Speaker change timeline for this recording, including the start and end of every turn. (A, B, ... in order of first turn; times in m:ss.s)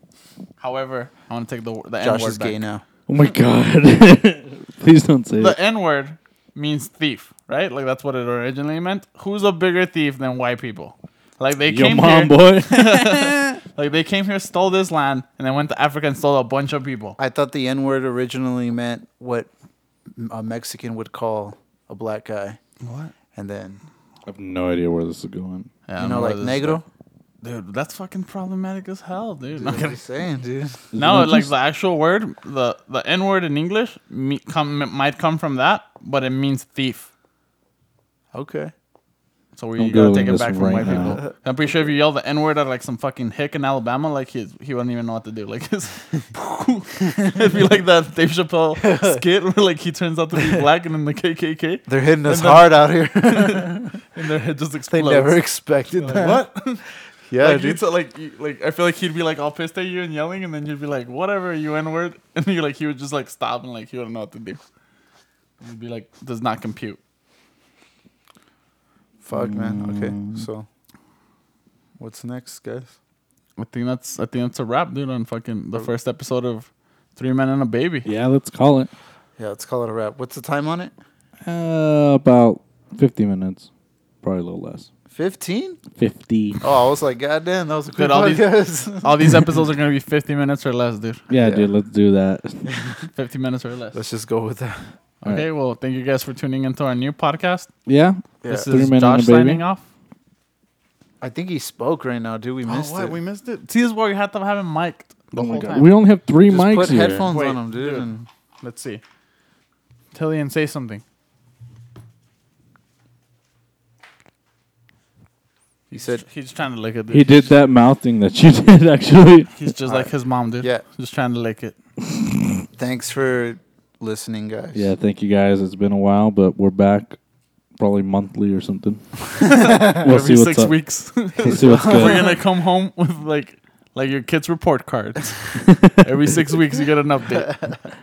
0:00.6-0:02.6 A
0:02.0-0:02.8 B
0:03.1-0:05.6 C
0:05.4-0:17.2 A
0:11.7-0:13.6 C
0:17.2-0:19.5 B
0:20.2-0:22.6 B
0:22.8-0:23.1 A
0:23.4-0:23.8 B
0:24.3-0:25.7 C
0:25.9-0:26.8 A
0:26.0-0:26.8 B
0:27.4-0:30.0 A
0:29.6-0:30.8 B
0:30.9-0:31.5 C
0:31.0-0:37.1 A
0:38.3-0:38.7 B
0:39.6-0:55.4 A
0:39.8-0:41.2 C
0:47.0-0:47.3 B
0:48.8-0:49.2 B
0:51.9-0:53.9 B
0:54.9-0:56.4 B
0:56.0-0:56.8 A
0:57.3-0:57.8 B
0:57.4-1:04.6 A
1:05.6-1:07.0 A
1:09.2-1:10.7 B
1:09.3-1:10.5 C
1:12.0-1:12.9 B
1:13.6-1:18.1 A
1:18.0-1:18.9 C
1:19.4-1:20.9 B
1:21.4-1:23.7 C
1:24.2-1:24.9 C
1:25.1-1:25.8 B
1:26.0-1:26.6 C
1:26.6-1:29.3 B
1:28.0-1:31.2 A
1:31.3-1:32.6 C
1:31.4-1:31.7 B
1:33.1-1:34.0 A
1:33.9-1:34.9 B
1:35.2-1:37.7 A
1:37.9-1:39.6 C
1:38.4-1:38.7 B
1:38.4-1:39.8 A
1:41.2-1:43.2 B
1:42.7-1:45.9 A
1:45.3-1:47.3 C
1:46.5-1:48.3 B
1:47.3-1:48.1 A
1:48.6-1:49.0 A
1:50.1-1:51.0 A
1:55.9-1:56.2 B
1:55.9-1:57.5 A
1:57.1-1:59.5 C
1:59.5-2:01.8 A
2:02.2-2:02.6 C
2:02.8-2:04.9 B
2:04.7-2:07.2 C
2:07.8-2:10.8 C
2:09.4-2:17.5 A
2:11.4-2:12.3 C
2:11.4-2:12.4 B
2:15.6-2:16.1 C